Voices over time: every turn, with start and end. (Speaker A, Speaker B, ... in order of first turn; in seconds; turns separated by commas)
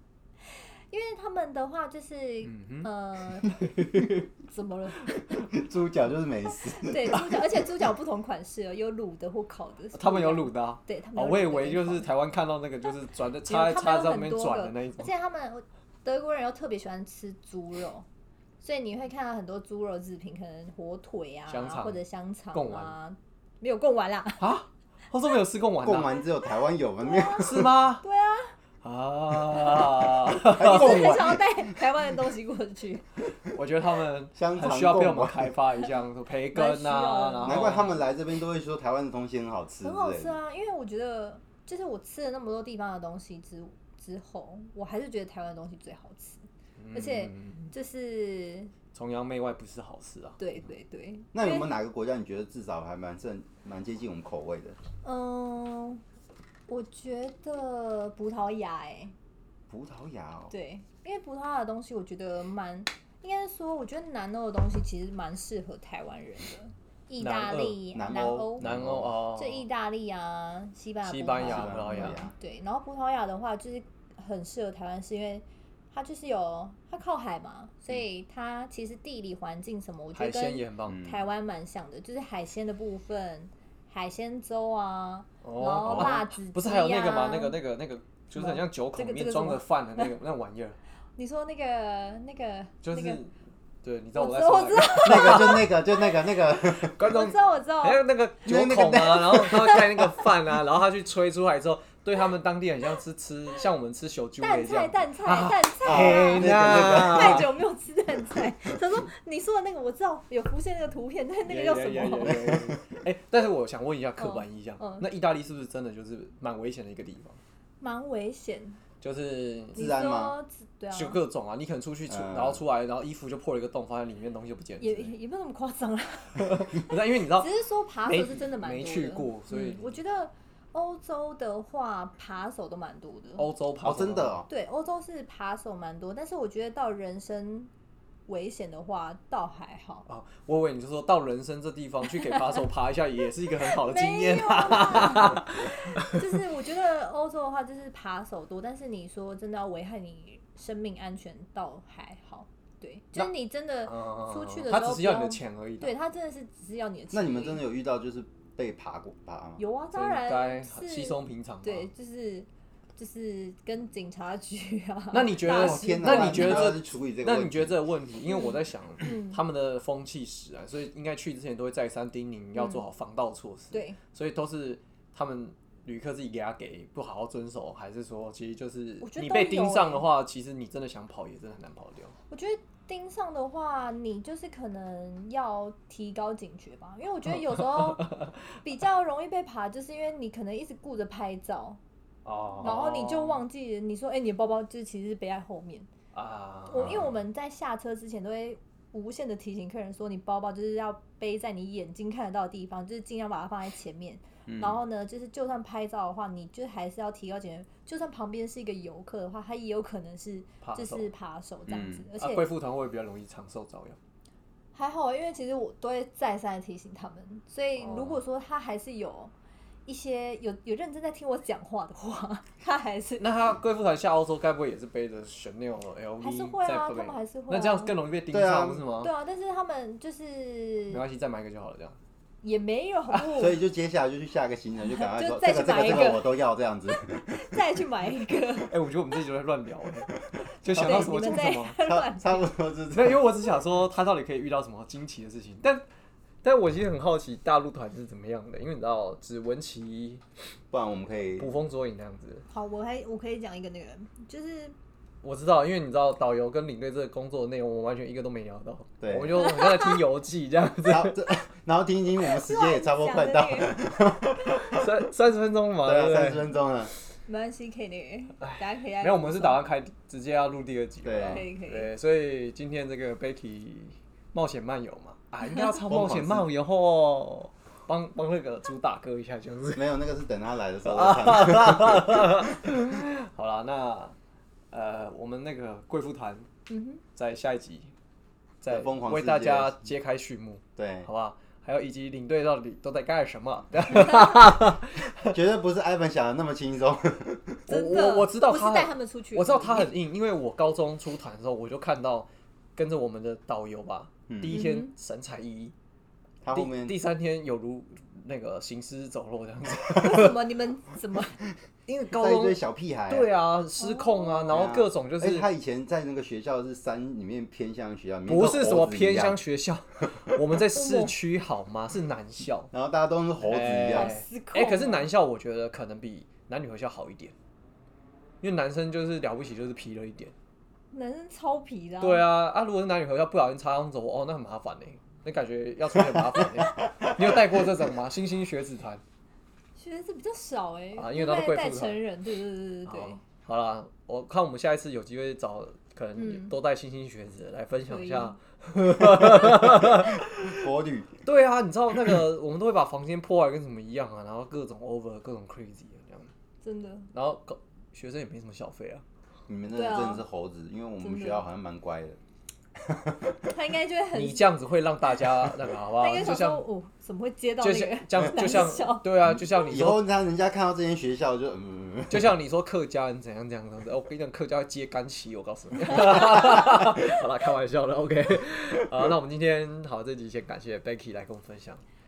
Speaker A: 0.4-3.6, Speaker B: 2.4-2.9, Speaker B: 3.5-4.2, Speaker A: 4.5-5.5, Speaker C: 5.3-7.2, Speaker A: 6.7-12.1, Speaker B: 9.9-15.1, Speaker A: 13.5-18.1, Speaker A: 18.6-24.6, Speaker B: 21.5-22.0, Speaker B: 22.5-22.9, Speaker B: 24.4-26.1, Speaker C: 25.8-27.7, Speaker A: 27.0-28.6, Speaker B: 27.4-28.0, Speaker B: 28.8-31.2, Speaker C: 30.4-31.8, Speaker A: 30.5-33.1, Speaker B: 33.5-38.0, Speaker C: 34.4-35.5, Speaker A: 36.5-38.0, Speaker C: 37.4-40.4, Speaker A: 39.8-48.7, Speaker B: 46.8-47.7, Speaker B: 48.9-50.4, Speaker A: 50.4-51.7, Speaker C: 51.3-54.8, Speaker A: 55.0-56.0, Speaker A: 56.7-59.1, Speaker C: 59.7-60.5, Speaker A: 60.5-68.7, Speaker B: 67.2-67.8, Speaker C: 67.9-69.2, Speaker B: 68.6-69.6, Speaker A: 69.3-87.6, Speaker B: 71.0-72.3, Speaker C: 71.4-72.3, Speaker B: 80.1-81.0, Speaker C: 80.9-81.2, Speaker B: 85.4-90.8, Speaker C: 85.8-86.1, Speaker A: 88.3-90.1, Speaker A: 91.2-93.2, Speaker B: 92.8-95.7, Speaker A: 94.2-96.1, Speaker C: 95.0-97.0, Speaker A: 96.7-98.0, Speaker B: 96.8-107.5, Speaker C: 98.5-100.2, Speaker A: 104.4-112.5, Speaker C: 105.8-107.5, Speaker B: 111.5-117.4, Speaker C: 112.2-113.0, Speaker A: 114.2-115.0, Speaker A: 117.8-118.8, Speaker B: 119.0-119.9, Speaker C: 119.7-120.3, Speaker A: 119.7-121.2, Speaker B: 120.9-125.1, Speaker C: 122.1-122.6, Speaker A: 124.8-133.5, Speaker B: 126.4-127.5, Speaker B: 128.1-129.9, Speaker B: 133.4-134.4, Speaker C: 133.8-134.5, Speaker A: 134.5-137.7, Speaker A: 138.3-140.1, Speaker B: 140.1-146.2, Speaker A: 142.2-142.6, Speaker A: 143.6-157.6, Speaker B: 153.8-155.9, Speaker C: 157.1-159.6, Speaker A: 159.6-166.7, Speaker B: 159.9-161.9, Speaker B: 165.1-182.1, Speaker C: 165.4-167.8, Speaker A: 168.3-169.4, Speaker A: 172.5-172.8, Speaker A: 173.7-174.0, Speaker A: 179.0-180.1, Speaker A: 182.3-191.8, Speaker B: 187.6-188.2, Speaker B: 192.2-193.4, Speaker A: 192.6-195.9, Speaker B: 196.1-197.1, Speaker A: 196.7-212.5, Speaker C: 204.5-204.8, Speaker B: 210.6-211.1, Speaker C: 211.7-212.1, Speaker B: 212.2-214.0, Speaker A: 214.7-219.3, Speaker B: 217.8-218.2, Speaker A: 219.8-223.2, Speaker B: 223.2-229.1, Speaker A: 226.2-227.9, Speaker C: 228.3-228.8, Speaker A: 229.0-231.0, Speaker B: 230.9-232.0, Speaker A: 232.4-233.6, Speaker C: 233.3-237.2, Speaker A: 234.8-236.3, Speaker A: 236.9-238.7, Speaker B: 238.7-241.8, Speaker A: 240.7-242.4, Speaker C: 241.8-243.2, Speaker B: 242.9-245.8, Speaker B: 246.4-250.2, Speaker C: 250.7-251.5, Speaker B: 251.4-252.4, Speaker A: 252.5-254.7, Speaker B: 255.2-261.4, Speaker C: 259.0-259.5, Speaker A: 259.4-259.9, Speaker C: 260.8-264.8, Speaker A: 262.4-263.8, Speaker B: 264.5-266.5, Speaker C: 265.8-266.9, Speaker A: 267.3-269.6, Speaker B: 268.4-279.8, Speaker C: 271.0-271.4, Speaker A: 271.2-271.9, Speaker C: 275.9-276.5, Speaker C: 279.8-282.2, Speaker B: 280.8-284.1, Speaker B: 284.7-286.5, Speaker A: 286.7-287.0, Speaker B: 287.1-287.9, Speaker B: 288.6-295.4, Speaker C: 288.7-289.8, Speaker C: 290.8-291.1, Speaker A: 293.9-294.3, Speaker C: 295.3-297.6, Speaker B: 297.7-305.7, Speaker A: 297.7-299.9, Speaker C: 304.3-304.6, Speaker A: 304.5-304.9, Speaker C: 306.4-306.9, Speaker B: 306.5-310.4, Speaker A: 309.9-311.4, Speaker B: 311.9-315.5, Speaker C: 312.1-313.3, Speaker A: 313.8-314.7, Speaker C: 314.5-319.4, Speaker B: 318.3-322.7, Speaker A: 320.7-321.1, Speaker C: 322.7-324.1, Speaker B: 323.4-327.3, Speaker A: 323.9-325.1, Speaker B: 328.4-330.3, Speaker A: 330.9-332.3, Speaker B: 332.0-339.0, Speaker A: 339.8-343.2, Speaker B: 341.0-342.0, Speaker B: 342.9-350.7, Speaker A: 346.2-346.5, Speaker A: 347.9-348.4, Speaker C: 349.2-351.2, Speaker B: 351.2-356.3, Speaker A: 356.6-357.1, Speaker B: 357.1-359.0, Speaker C: 359.5-362.2, Speaker A: 359.7-360.2, Speaker A: 361.0-361.4, Speaker C: 362.8-363.4, Speaker A: 363.4-364.4, Speaker B: 364.1-366.6, Speaker A: 366.0-369.5, Speaker B: 367.6-370.0, Speaker C: 369.3-372.3, Speaker B: 372.1-381.8